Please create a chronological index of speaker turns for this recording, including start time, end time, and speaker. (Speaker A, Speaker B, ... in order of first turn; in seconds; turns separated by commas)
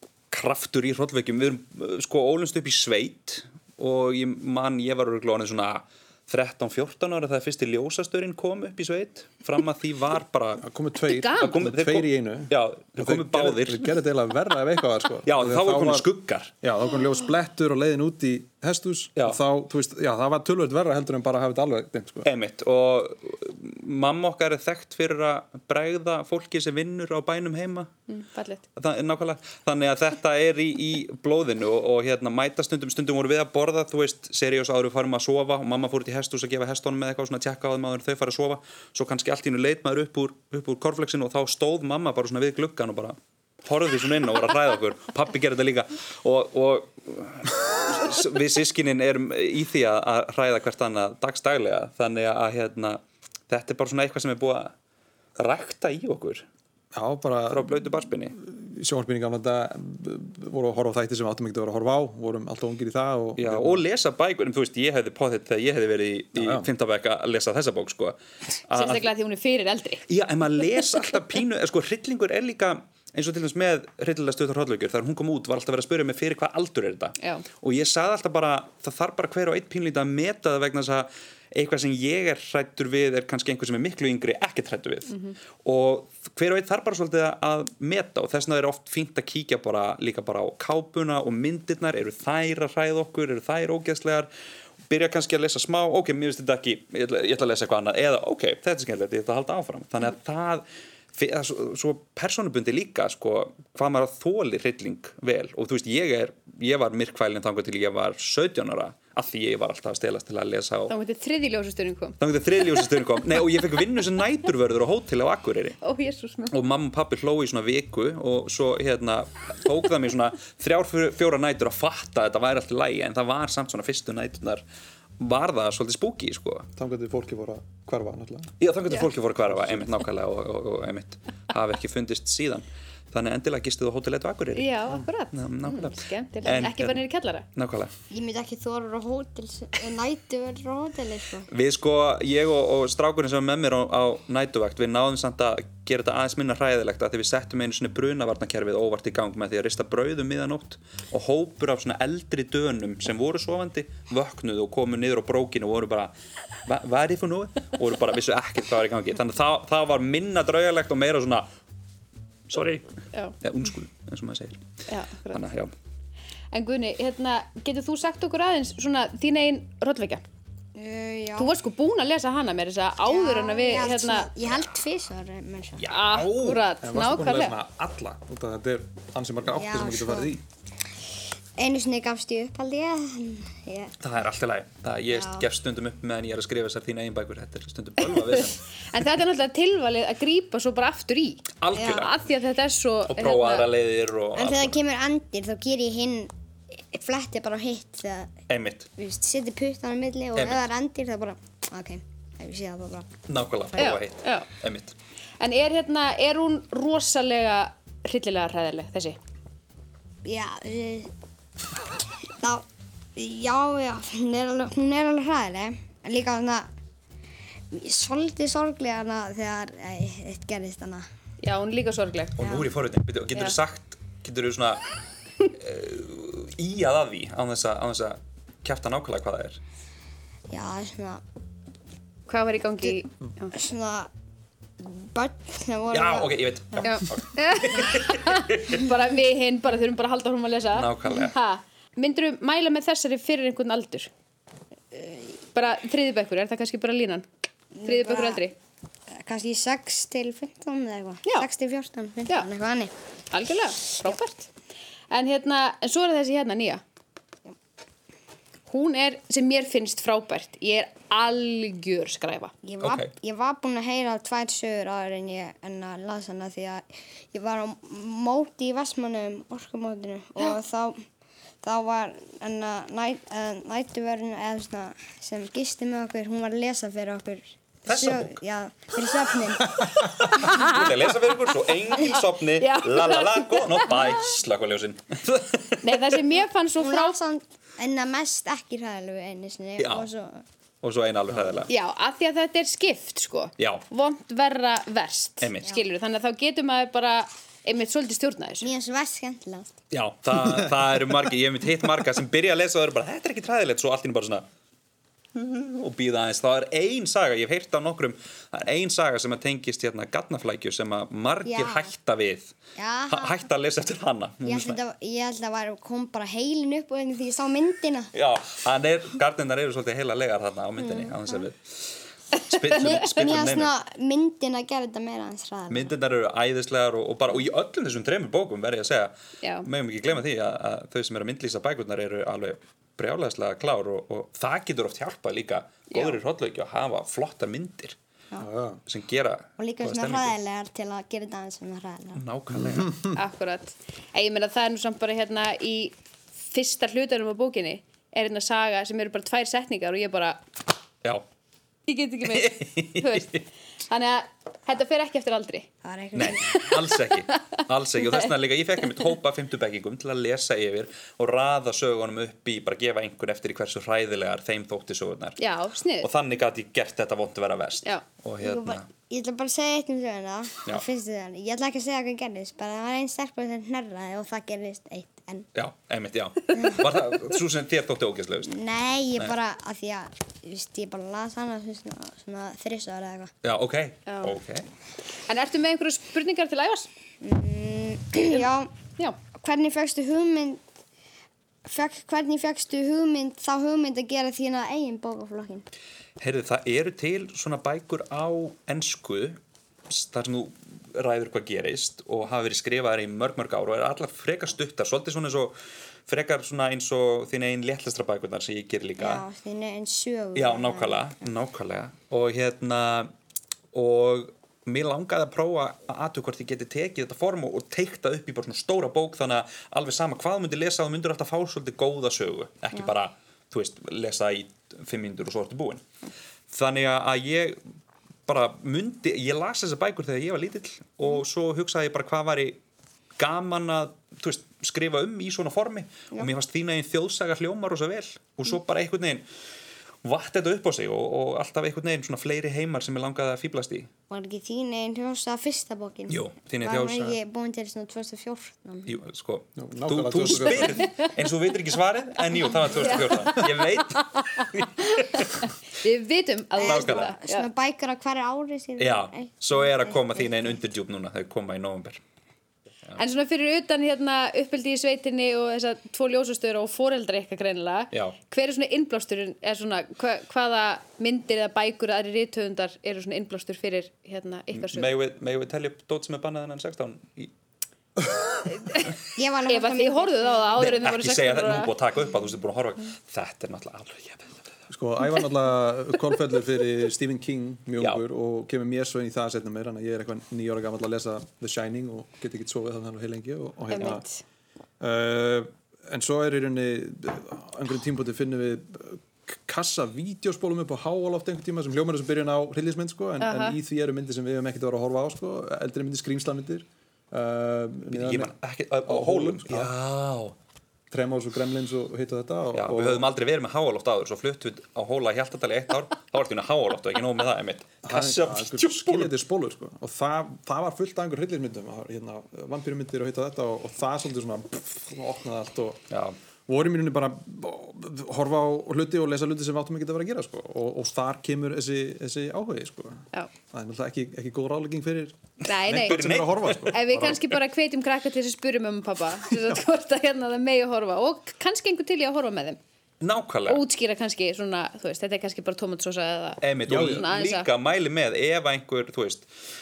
Speaker A: 0.3-10.6, Speaker B: 10.6-16.1, Speaker C: 11.0-11.6, Speaker A: 11.3-13.9, Speaker A: 15.2-16.5, Speaker B: 16.6-22.3, Speaker A: 22.2-27.9, Speaker C: 28.1-28.6, Speaker A: 28.8-54.7, Speaker A: 55.4-56.4, Speaker B: 56.9-57.8, Speaker A: 57.5-58.4, Speaker B: 58.4-63.8, Speaker A: 63.4-69.1, Speaker B: 66.3-66.7, Speaker C: 68.7-70.0, Speaker A: 70.1-94.3, Speaker C: 77.2-77.4, Speaker C: 85.1-85.3, Speaker A: 94.9-110.9, Speaker C: 110.9-112.2, Speaker A: 112.2-115.8, Speaker C: 115.8-116.5, Speaker A: 116.5-124.6, Speaker A: 125.2-126.7, Speaker B: 126.8-128.5, Speaker A: 128.6-137.0, Speaker C: 134.5-137.5, Speaker A: 137.6-137.9, Speaker D: 138.1-141.5, Speaker A: 141.5-156.1, Speaker A: 156.6-161.5, Speaker A: 162.5-162.9, Speaker A: 163.4-164.6, Speaker C: 164.9-165.4, Speaker A: 165.3-165.7, Speaker C: 166.5-170.2, Speaker D: 170.7-171.5, Speaker C: 171.4-174.3, Speaker D: 173.0-175.8, Speaker A: 175.8-176.6, Speaker C: 175.9-177.6, Speaker B: 176.8-180.4, Speaker D: 179.5-180.3, Speaker D: 181.6-183.9, Speaker A: 184.0-188.6, Speaker D: 185.1-185.4, Speaker C: 188.1-193.7, Speaker A: 191.6-192.1, Speaker D: 191.8-192.1, Speaker A: 193.1-194.8, Speaker D: 194.3-198.3, Speaker A: 198.5-198.9, Speaker D: 198.9-203.1, Speaker A: 200.4-200.7, Speaker A: 203.3-204.9, Speaker C: 203.8-204.5, Speaker C: 205.4-209.2, Speaker D: 210.2-211.1, Speaker D: 212.4-212.6, Speaker D: 213.2-216.7, Speaker D: 217.7-221.0, Speaker C: 221.4-222.4, Speaker A: 222.3-224.8, Speaker D: 222.4-222.7, Speaker A: 225.4-229.6, Speaker D: 230.5-231.2, Speaker C: 232.3-233.5, Speaker D: 233.5-234.1, Speaker D: 234.8-236.9, Speaker A: 235.9-238.8, Speaker C: 236.8-244.1, Speaker A: 240.7-241.3, Speaker D: 244.9-245.2, Speaker C: 245.5-247.2, Speaker D: 247.7-248.5, Speaker C: 247.8-248.5, Speaker D: 249.1-252.9, Speaker C: 253.3-254.5, Speaker C: 255.1-256.8, Speaker C: 258.7-262.5, Speaker D: 262.6-271.0, Speaker A: 262.8-263.1, Speaker D: 271.6-279.8, Speaker A: 277.9-278.3, Speaker B: 279.8-280.1, Speaker C: 280.3-280.9, Speaker A: 280.3-286.2, Speaker C: 282.0-284.2, Speaker C: 285.8-287.2, Speaker D: 286.8-290.4, Speaker A: 289.8-290.1, Speaker A: 290.8-291.7, Speaker C: 291.7-298.7, Speaker A: 293.6-293.8, Speaker A: 295.4-295.8, Speaker D: 298.6-299.7, Speaker A: 299.9-304.4, Speaker A: 305.3-312.5, Speaker D: 311.4-311.9, Speaker D: 312.8-313.4, Speaker A: 313.1-314.8, Speaker D: 314.4-318.1, Speaker A: 318.1-323.7, Speaker D: 320.8-321.4, Speaker D: 322.7-325.9, Speaker A: 325.7-337.9, Speaker C: 329.4-329.7, Speaker C: 335.9-336.2, Speaker B: 338.4-338.8, Speaker A: 338.9-340.4, Speaker D: 339.6-342.2, Speaker A: 342.1-343.0, Speaker B: 342.7-343.1, Speaker C: 343.0-345.9, Speaker C: 346.5-350.4, Speaker C: 351.9-355.7, Speaker A: 352.2-353.4, Speaker D: 355.8-356.7, Speaker A: 356.1-365.4, Speaker C: 356.3-357.0, Speaker C: 365.4-366.1, Speaker A: 366.0-368.9, Speaker D: 368.4-375.5, Speaker A: 375.5-378.5, Speaker D: 376.5-376.8, Speaker D: 378.4-383.3, Speaker A: 383.4-384.7, Speaker C: 384.1-384.4, Speaker C: 385.3-386.9, Speaker D: 387.2-388.7, Speaker D: 389.4-390.6, Speaker D: 391.6-395.6, Speaker A: 396.2-405.6, Speaker A: 406.1-409.2, Speaker D: 409.0-411.1, Speaker A: 410.4-413.1, Speaker A: 413.7-425.8, Speaker A: 426.5-427.6, Speaker A: 428.3-432.6, Speaker A: 433.2-439.2, Speaker A: 440.0-443.9, Speaker D: 444.1-449.0, Speaker A: 446.1-447.2, Speaker A: 448.9-455.4, Speaker B: 449.6-450.9, Speaker C: 452.7-457.4, Speaker D: 456.6-460.3, Speaker A: 456.6-457.1, Speaker A: 458.8-462.0, Speaker C: 463.0-474.9, Speaker A: 474.5-477.3, Speaker C: 478.5-478.9, Speaker D: 479.1-480.6, Speaker C: 479.5-481.7, Speaker A: 480.6-484.4, Speaker B: 484.7-494.0, Speaker C: 493.7-494.2, Speaker B: 494.8-508.3, Speaker C: 503.2-503.6, Speaker A: 507.9-510.4, Speaker B: 508.9-509.7, Speaker B: 510.9-513.1, Speaker A: 512.5-519.1, Speaker B: 517.8-525.8, Speaker B: 526.5-537.2, Speaker C: 535.4-536.0, Speaker A: 535.7-537.3, Speaker C: 536.7-542.6, Speaker A: 543.0-543.6, Speaker C: 543.5-547.5, Speaker A: 546.4-549.3, Speaker B: 546.7-547.1